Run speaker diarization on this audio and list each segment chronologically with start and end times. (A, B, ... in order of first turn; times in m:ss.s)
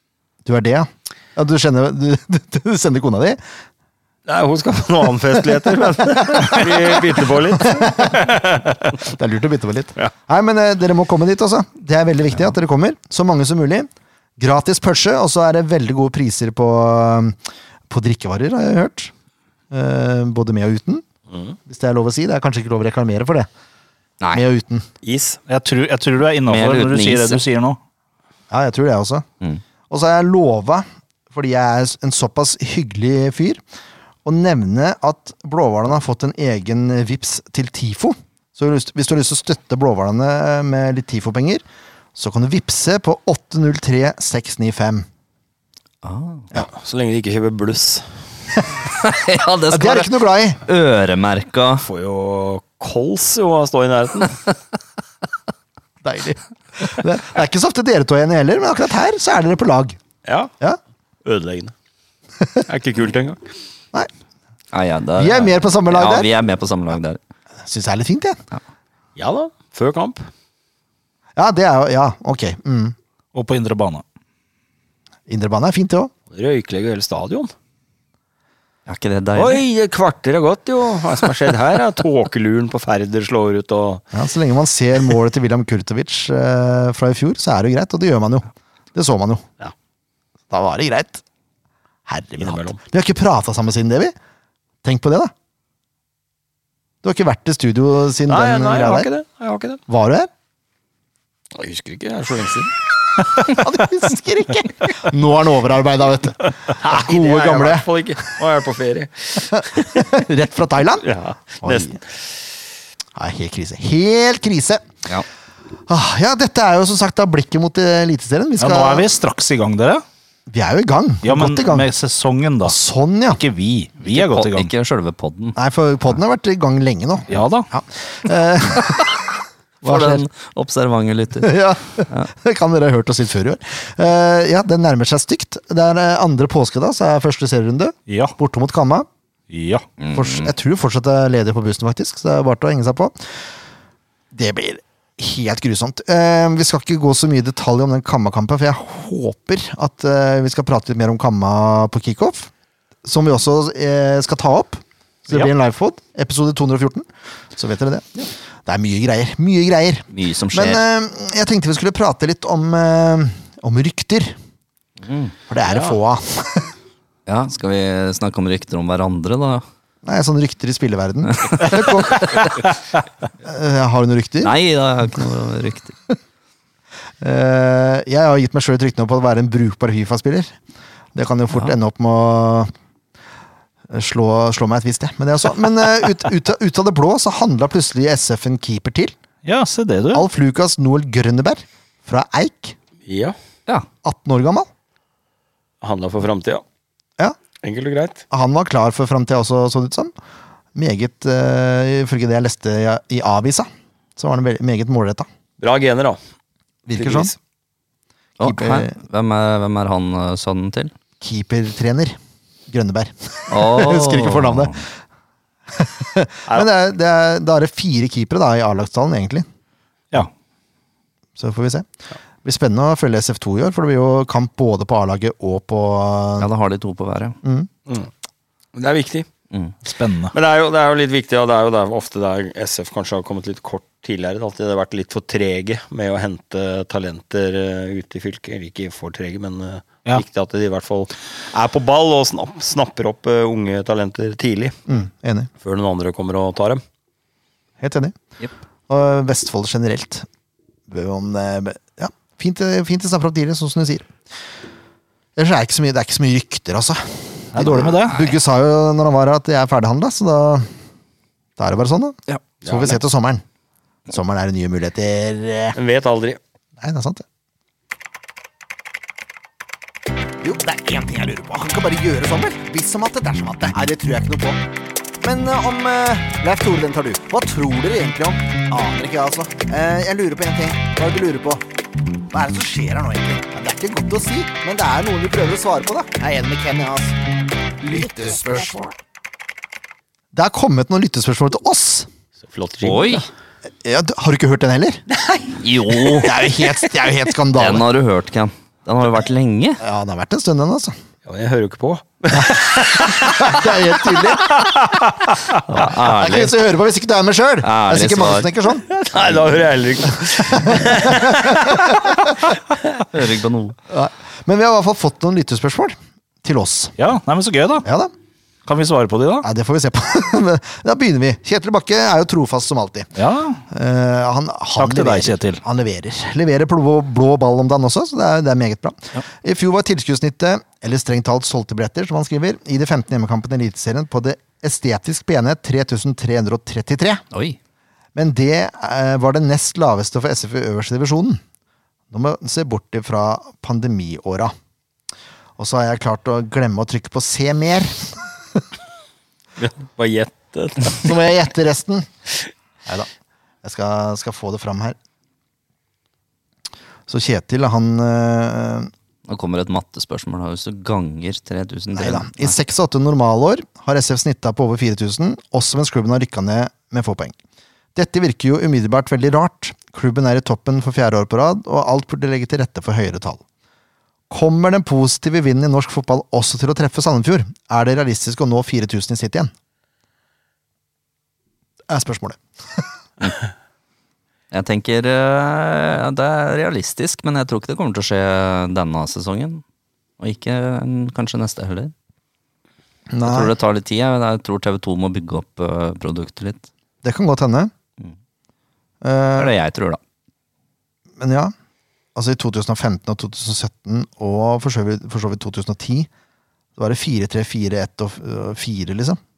0:00.4-0:03.4 A
0:04.2-0:08.8 B
0:05.8-0:07.1 A
0:07.6-0:08.1 A
0:09.0-0:17.4 A
0:17.9-0:19.1 A
0:19.7-0:21.0 A
0:21.3-0:21.6 B
0:21.7-0:23.5 A
0:24.3-0:24.8 A
0:25.0-0:25.4 B
0:25.5-0:27.8 C
0:26.5-0:27.4 D
0:28.5-0:29.2 A
0:29.9-0:33.6 A
0:34.2-0:41.6 A
0:42.1-0:45.0 A
0:46.0-0:46.5 D
0:46.5-0:48.0 B
0:48.8-0:51.8 D
0:49.7-0:50.6 A
0:51.8-0:54.4 B
0:56.0-1:00.0 A
1:00.2-1:00.5 B
1:01.2-1:01.7 B
1:02.7-1:03.5 B
1:04.7-1:07.2 D
1:05.2-1:06.3 A
1:07.6-1:08.4 A
1:09.2-1:10.3 B
1:11.4-1:12.9 A
1:13.3-1:14.0 C
1:15.3-1:16.1 A
1:16.3-1:17.5 B
1:18.8-1:19.6 D
1:19.4-1:24.0 B
1:24.1-1:29.4 A
1:30.5-1:31.2 A
1:32.1-1:34.1 A
1:32.4-1:32.8 B
1:34.8-1:35.3 A
1:37.0-1:39.1 A
1:38.3-1:39.8 B
1:39.9-1:40.3 A
1:41.6-1:42.7 B
1:43.4-1:47.9 A
1:46.7-1:50.1 B
1:49.6-1:51.1 A
1:51.0-1:52.0 B
1:51.6-1:52.0 A
1:53.2-1:54.8 A
1:55.9-1:59.1 A
1:58.6-2:00.0 C
2:00.5-2:01.9 A
2:01.2-2:02.8 C
2:02.6-2:03.4 A
2:03.3-2:04.7 C
2:04.1-2:05.6 D
2:05.6-2:09.1 A
2:07.3-2:07.7 C
2:09.8-2:11.6 D
2:09.8-2:10.2 A
2:11.4-2:19.1 A
2:18.1-2:18.4 C
2:19.5-2:19.8 C
2:20.0-2:20.5 D
2:20.1-2:23.3 A
2:24.3-2:32.5 A
2:33.0-2:44.4 A
2:40.1-2:40.8 D
2:45.0-2:45.3 D
2:45.5-2:46.7 A
2:45.7-2:46.0 B
2:47.3-2:49.6 D
2:50.0-2:52.6 A
2:51.3-2:52.5 D
2:53.4-2:54.5 A
2:54.4-2:55.9 D
2:57.2-3:00.5 A
3:01.1-3:02.7 A
3:03.9-3:09.1 A
3:09.4-3:10.2 C
3:10.1-3:12.8 A
3:13.0-3:13.3 B
3:14.0-3:14.7 A
3:15.8-3:16.6 B
3:17.6-3:18.2 B
3:18.3-3:20.1 A
3:20.7-3:25.3 A
3:25.6-3:26.2 B
3:26.9-3:27.3 A
3:27.0-3:27.4 B
3:28.4-3:30.9 D
3:28.4-3:29.0 A
3:31.2-3:32.2 A
3:32.7-3:34.8 A
3:33.5-3:34.8 D
3:35.7-3:39.4 A
3:41.4-3:41.9 A
3:42.4-3:46.5 A
3:46.4-3:47.4 D
3:47.4-3:47.7 A
3:48.7-3:49.3 B
3:49.8-3:50.3 C
3:50.3-4:04.8 B
4:04.9-4:05.5 A
4:05.6-4:06.8 B
4:07.8-4:08.1 A
4:08.9-4:10.2 A
4:10.9-4:14.1 A
4:15.4-4:20.7 A
4:17.5-4:18.3 C
4:21.6-4:23.4 A
4:22.6-4:23.0 B
4:24.1-4:25.8 A
4:25.8-4:26.4 B
4:26.8-4:27.2 A
4:30.4-4:34.6 A
4:35.2-4:41.6 A
4:42.3-4:47.2 A
4:47.8-4:48.9 A
4:50.3-4:52.1 A
4:52.4-4:53.3 B
4:52.8-4:53.2 D
4:53.8-4:55.0 A
4:55.2-4:56.6 B
4:55.6-4:56.3 D
4:56.2-4:57.8 A
4:57.5-4:59.8 D
4:59.8-5:00.9 A
5:01.2-5:03.7 B
5:03.2-5:04.7 A
5:05.7-5:06.5 D
5:05.8-5:08.8 A
5:07.6-5:08.5 D
5:08.8-5:11.9 B
5:10.6-5:12.2 A
5:13.1-5:13.8 D
5:13.9-5:16.9 A
5:17.0-5:17.9 C
5:17.8-5:18.1 A
5:18.6-5:19.5 C
5:19.4-5:23.1 A
5:23.1-5:23.6 C
5:23.7-5:37.2 A
5:24.8-5:25.6 C
5:37.3-5:37.6 D
5:38.1-5:41.4 A
5:42.1-5:44.5 A
5:45.6-5:48.6 A
5:49.6-5:51.1 B
5:50.9-5:52.1 A
5:53.6-5:55.0 A
5:57.1-5:58.9 A
5:59.3-6:02.6 D
6:02.0-6:07.4 A
6:07.9-6:13.4 A
6:14.3-6:19.5 A
6:21.9-6:22.8 A
6:24.5-6:29.6 D
6:30.2-6:31.9 D
6:33.1-6:33.5 A
6:33.2-6:36.7 D
6:37.0-6:37.7 A
6:39.0-6:39.5 A
6:39.4-6:40.0 D
6:41.2-6:41.5 A
6:42.1-6:46.1 A
6:46.8-6:49.2 A